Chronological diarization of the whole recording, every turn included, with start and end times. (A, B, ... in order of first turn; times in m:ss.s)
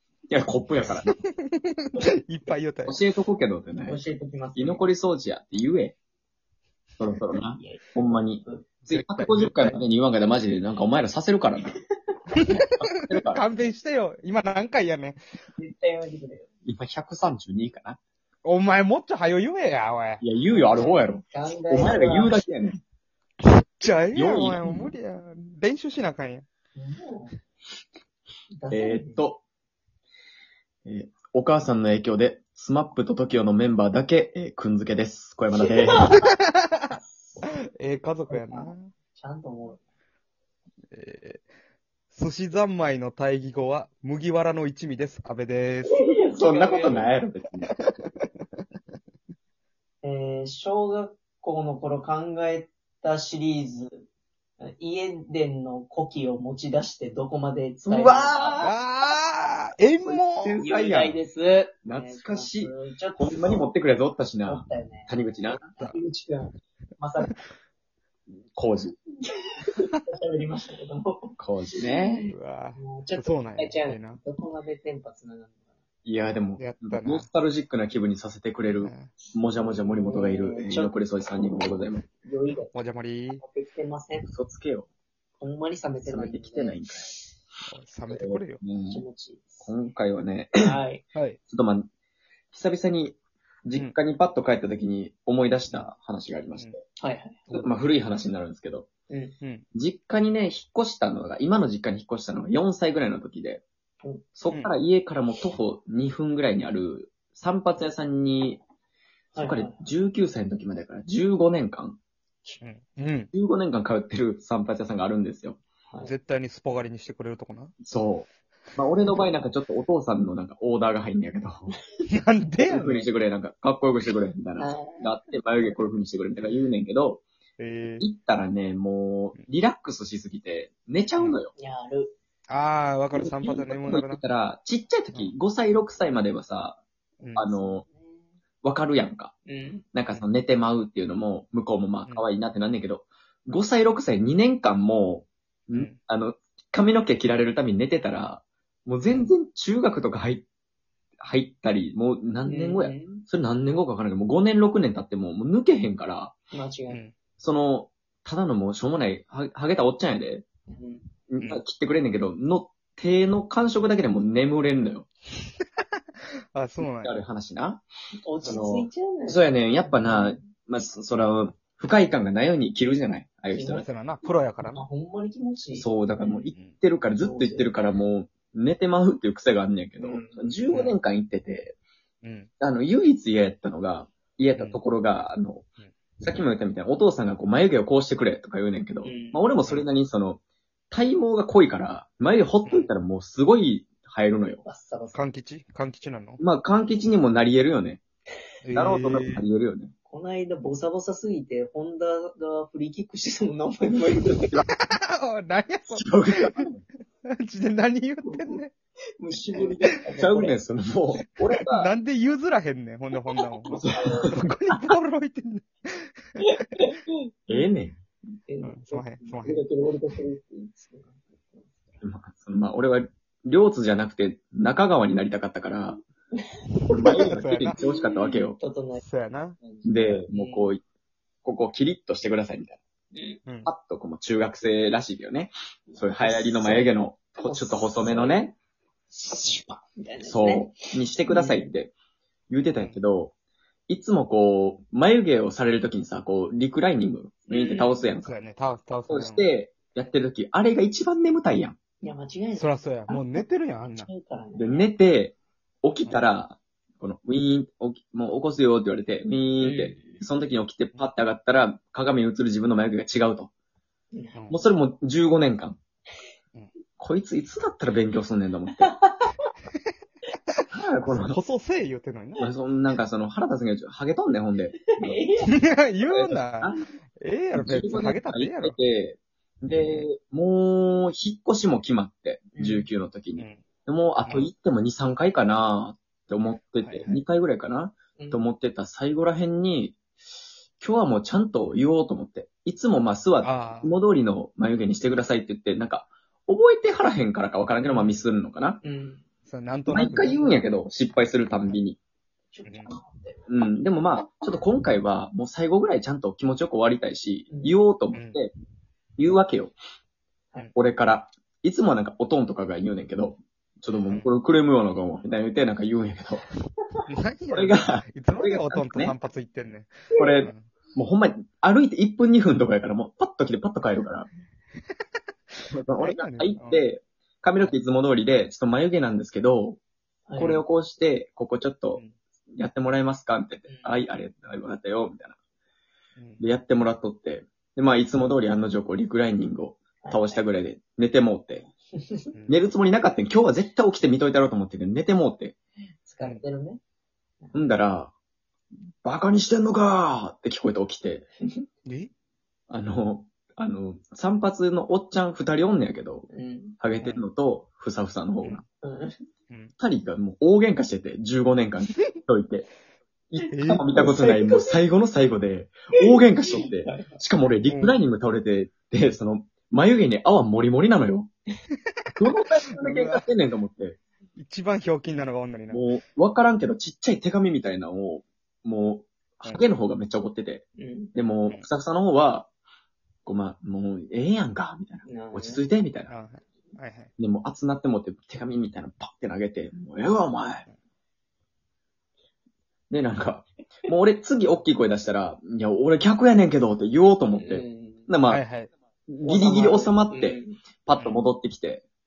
0:00.3-0:01.1 A
0:01.0-0:03.0 B
0:02.8-0:04.0 A
0:03.8-0:04.8 C
0:04.5-0:06.0 A
0:07.0-0:11.7 A
0:07.6-0:08.6 C
0:08.9-0:09.8 B
0:12.3-0:15.2 B
0:12.8-0:13.4 A
0:15.6-0:16.5 C
0:16.6-0:18.0 A
0:18.4-0:20.2 B
0:20.2-0:22.8 A
0:20.5-0:22.4 C
0:23.4-0:26.4 B
0:24.1-0:24.9 A
0:26.8-0:27.3 C
0:28.6-0:29.2 C
0:28.7-0:29.4 A
0:30.8-0:36.1 A
0:35.6-0:36.2 C
0:36.1-0:38.9 B
0:36.9-0:37.4 C
0:38.3-0:39.8 C
0:40.9-0:41.4 B
0:42.1-0:46.0 B
0:45.8-0:47.2 C
0:46.2-0:47.7 A
0:47.8-0:48.3 B
0:50.0-0:54.0 C
0:54.6-0:58.7 C
0:57.8-0:58.7 A
0:58.6-1:00.6 B
1:00.0-1:01.2 A
1:00.6-1:03.6 C
1:01.8-1:05.7 A
1:04.5-1:07.4 C
1:08.5-1:09.0 A
1:09.2-1:15.6 C
1:11.4-1:12.3 A
1:12.3-1:14.2 B
1:16.0-1:22.0 A
1:16.6-1:17.3 B
1:18.7-1:19.1 B
1:19.6-1:22.7 C
1:22.5-1:23.4 B
1:23.3-1:24.3 C
1:24.3-1:24.9 A
1:25.4-1:26.8 C
1:26.0-1:27.1 A
1:27.7-1:28.6 B
1:28.1-1:29.0 A
1:28.9-1:29.7 C
1:29.6-1:30.8 A
1:30.6-1:31.0 C
1:31.5-1:31.9 A
1:32.5-1:36.8 A
1:37.0-1:37.4 C
1:37.5-1:38.9 A
1:39.1-1:39.3 C
1:39.7-1:43.6 A
1:44.4-1:48.6 A
1:49.3-1:49.8 C
1:49.4-1:52.0 A
1:52.6-1:53.3 B
1:53.3-1:55.6 A
1:56.0-1:57.7 B
1:57.8-2:01.7 A
2:02.1-2:03.1 B
2:02.6-2:07.2 A
2:04.6-2:05.1 C
2:07.6-2:08.0 B
2:08.0-2:11.5 A
2:11.6-2:12.2 C
2:12.5-2:14.2 B
2:13.1-2:16.8 A
2:17.4-2:17.8 A
2:17.5-2:18.3 C
2:18.6-2:19.3 A
2:19.4-2:19.8 C
2:19.9-2:30.4 A
2:31.2-2:36.3 A
2:32.4-2:33.2 C
2:36.5-2:37.0 C
2:36.9-2:37.1 B
2:37.4-2:40.4 A
2:40.7-2:41.1 C
2:41.3-2:45.1 A
2:46.5-2:47.2 B
2:46.8-2:47.8 A
2:48.2-2:50.5 C
2:48.4-2:53.8 A
2:53.5-2:53.8 C
2:53.6-2:54.8 B
2:54.6-2:56.4 C
2:55.8-3:01.8 A
2:56.5-2:56.8 B
2:57.1-2:57.8 C
3:00.0-3:00.4 C
3:00.7-3:01.0 B
3:02.2-3:02.5 B
3:02.6-3:05.6 A
3:04.6-3:04.8 B
3:06.2-3:10.4 A
3:09.0-3:09.4 C
3:10.9-3:14.6 A
3:14.6-3:15.2 C
3:15.1-3:16.4 B
3:16.4-3:18.0 A
3:18.6-3:19.4 B
3:18.7-3:19.9 A
3:20.1-3:24.5 C
3:24.2-3:24.6 A
3:24.7-3:26.7 B
3:25.9-3:26.8 A
3:27.2-3:28.7 B
3:28.2-3:28.6 C
3:29.2-3:30.6 C
3:30.2-3:31.9 A
3:31.7-3:33.8 B
3:33.3-3:34.3 C
3:33.7-3:34.8 A
3:34.3-3:36.6 B
3:36.4-3:37.1 C
3:37.5-3:38.0 A
3:38.4-3:41.8 C
3:38.6-3:39.6 B
3:42.0-3:46.0 A
3:46.4-3:49.0 C
3:46.9-3:48.6 A
3:47.1-3:47.8 B
3:48.9-3:50.2 B
3:49.6-3:50.7 C
3:49.8-3:50.8 A
3:51.4-3:52.8 A
3:53.1-3:53.4 C
3:53.4-3:53.7 B
3:53.6-3:58.6 A
3:55.9-3:58.5 C
3:59.1-4:01.7 C
4:00.2-4:01.9 A
4:02.5-4:03.3 A
4:02.7-4:03.0 B
4:03.9-4:08.4 A
4:07.5-4:08.0 C
4:08.2-4:09.5 B
4:09.1-4:11.8 A
4:12.0-4:14.9 C
4:12.6-4:14.1 B
4:14.6-4:23.5 A
4:19.6-4:20.2 C
4:24.1-4:24.4 C
4:24.3-4:24.6 B
4:24.5-4:25.8 A
4:27.0-4:28.9 A
4:28.8-4:29.5 C
4:30.5-4:32.4 B
4:30.7-4:31.4 A
4:32.4-4:35.2 A
4:34.9-4:35.5 C
4:35.4-4:38.8 B
4:36.1-4:36.8 A
4:37.5-4:50.0 A
4:39.7-4:40.1 B
4:42.5-4:42.9 C
4:43.4-4:43.6 B
4:46.8-4:47.2 B
4:48.2-4:48.4 C
4:50.8-4:58.8 A
4:53.4-4:53.9 B
4:57.9-4:58.1 B
4:58.8-4:59.2 C
4:59.5-5:00.4 B
4:59.9-5:02.0 A
5:00.0-5:00.6 C
5:02.5-5:03.4 C
5:02.6-5:02.9 B
5:03.5-5:08.5 A
5:07.5-5:07.7 C
5:08.1-5:08.4 B
5:09.2-5:09.7 A
5:10.7-5:16.4 A
5:17.1-5:20.7 B
5:17.5-5:19.1 A
5:20.1-5:24.3 A
5:25.7-5:29.8 A
5:26.0-5:26.8 B
5:30.3-5:30.6 C
5:30.4-5:32.0 A
5:32.5-5:35.4 A
5:33.7-5:33.9 C
5:36.2-5:36.4 B
5:36.4-5:41.7 A
5:40.0-5:40.4 C
5:42.0-5:42.3 C
5:42.3-5:42.6 B
5:42.5-5:45.5 A
5:46.0-5:46.8 C
5:47.5-5:48.1 A
5:49.0-5:51.2 A
5:51.8-5:52.1 B
5:52.7-5:56.3 A
5:56.3-5:56.8 C
5:56.8-5:58.6 A
5:57.0-5:57.2 B
5:58.8-5:59.1 C
5:59.8-6:02.7 A
6:03.3-6:11.3 A
6:03.5-6:03.9 B
6:03.9-6:04.8 C
6:05.9-6:07.2 C
6:07.6-6:08.0 B
6:12.2-6:14.0 A
6:12.8-6:13.2 B
6:14.4-6:15.8 B
6:15.7-6:22.5 A
6:20.8-6:21.1 C
6:23.2-6:26.1 A
6:25.0-6:25.6 C
6:26.1-6:27.1 B
6:27.2-6:30.6 A
6:32.9-6:38.4 A
6:37.3-6:38.1 C
6:38.2-6:38.7 B
6:39.1-6:41.8 A
6:39.2-6:40.6 C
6:41.0-6:41.2 B